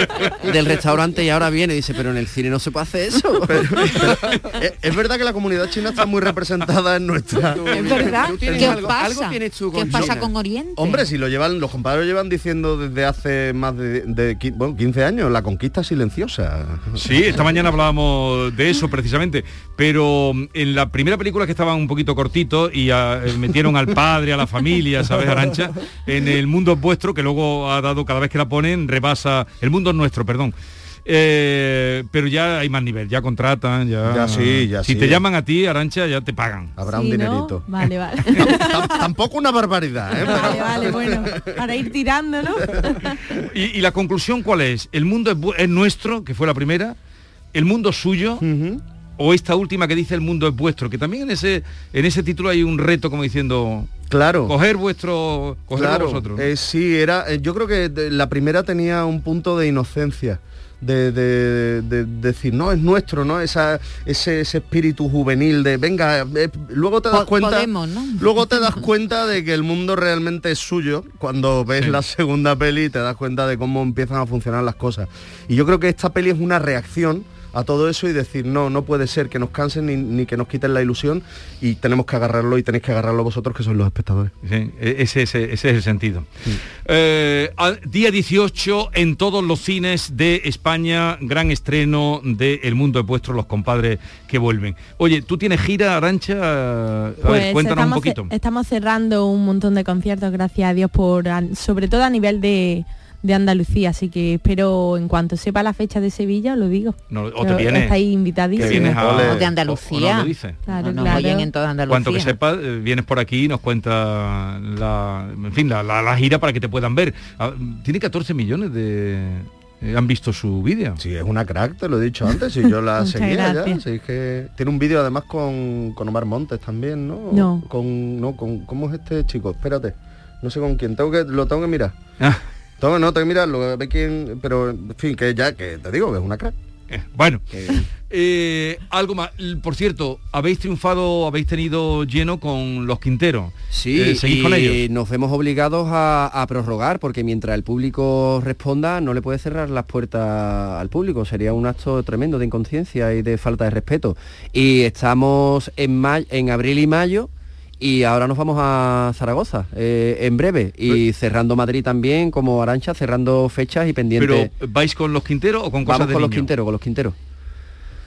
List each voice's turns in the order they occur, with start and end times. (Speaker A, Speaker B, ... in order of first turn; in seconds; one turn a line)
Speaker A: 0.4-3.6
Speaker B: 3.5-8.1
Speaker A: 7.5-10.3
Speaker C: 7.7-11.1
Speaker B: 10.8-17.0
Speaker D: 17.0-30.5
Speaker D: 31.1-36.8
Speaker B: 34.1-35.2
Speaker B: 36.8-37.7
Speaker E: 36.9-39.1
Speaker B: 38.5-41.7
Speaker E: 40.2-43.2
Speaker D: 43.4-47.0
Speaker D: 47.5-48.4
Speaker B: 48.4-48.8
Speaker D: 49.2-53.9
Speaker B: 54.1-54.5
Speaker D: 54.5-56.5
Speaker B: 55.7-84.3
Speaker C: 67.1-68.9
Speaker D: 84.4-86.3
Speaker D: 86.8-98.3
Speaker E: 97.2-108.9
Speaker D: 107.1-108.0
Speaker D: 108.5-110.6
Speaker B: 108.5-109.5
Speaker C: 109.2-112.4
Speaker E: 110.7-111.5
Speaker D: 111.9-121.0
Speaker B: 121.0-131.9
Speaker E: 123.0-123.8
Speaker E: 127.3-127.7
Speaker B: 132.8-136.5
Speaker D: 136.9-144.8
Speaker A: 143.7-164.5
Speaker D: 164.2-166.5
Speaker A: 165.8-167.1